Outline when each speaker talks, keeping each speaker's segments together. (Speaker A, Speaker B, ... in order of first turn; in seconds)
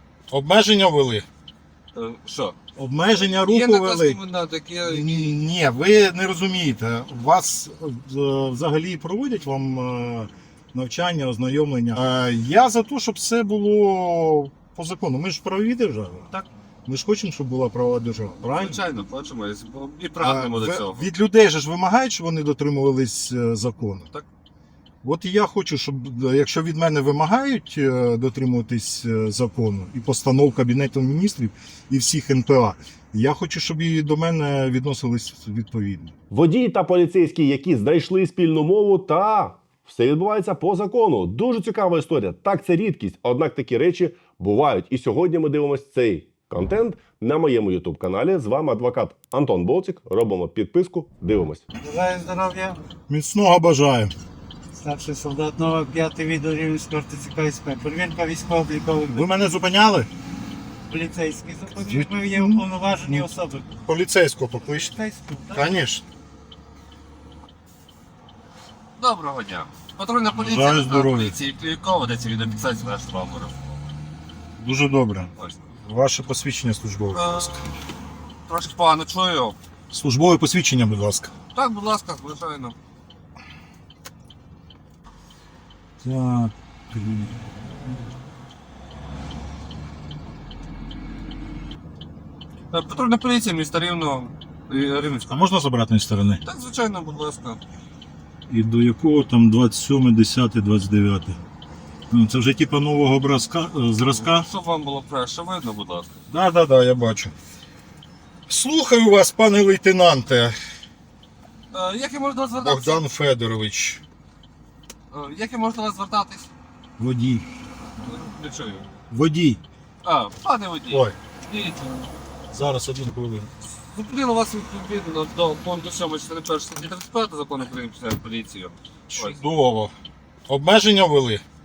Speaker A: 0.3-1.3, 2.8-4.2, 4.9-16.3, 16.9-18.8, 20.2-24.1, 25.0-36.1, 53.1-54.1, 59.1-60.1, 61.9-63.2, 63.9-65.0, 65.5-66.0, 70.4-71.3, 74.6-77.6, 79.9-81.3, 86.0-87.4, 95.3-96.4, 98.5-101.4, 102.1-104.5, 106.3-107.3, 108.5-110.6, 112.6-114.0, 117.0-117.5, 119.1-119.6, 120.9-121.2, 122.5-123.5, 129.1-129.9, 130.5-131.4
Speaker B: 1.9-2.5, 3.1-5.4, 18.4-21.1, 69.0-73.6, 77.1-77.6, 78.5-79.6, 81.5-82.8, 92.7-95.5, 96.4-97.6, 104.0-106.1, 111.7-113.0, 115.1-116.5, 118.0-118.8, 120.0-122.1, 123.8-129.4
Speaker C: 36.3-51.6
Speaker D: 51.8-52.8, 54.8-59.3, 60.9-63.8, 64.7-65.8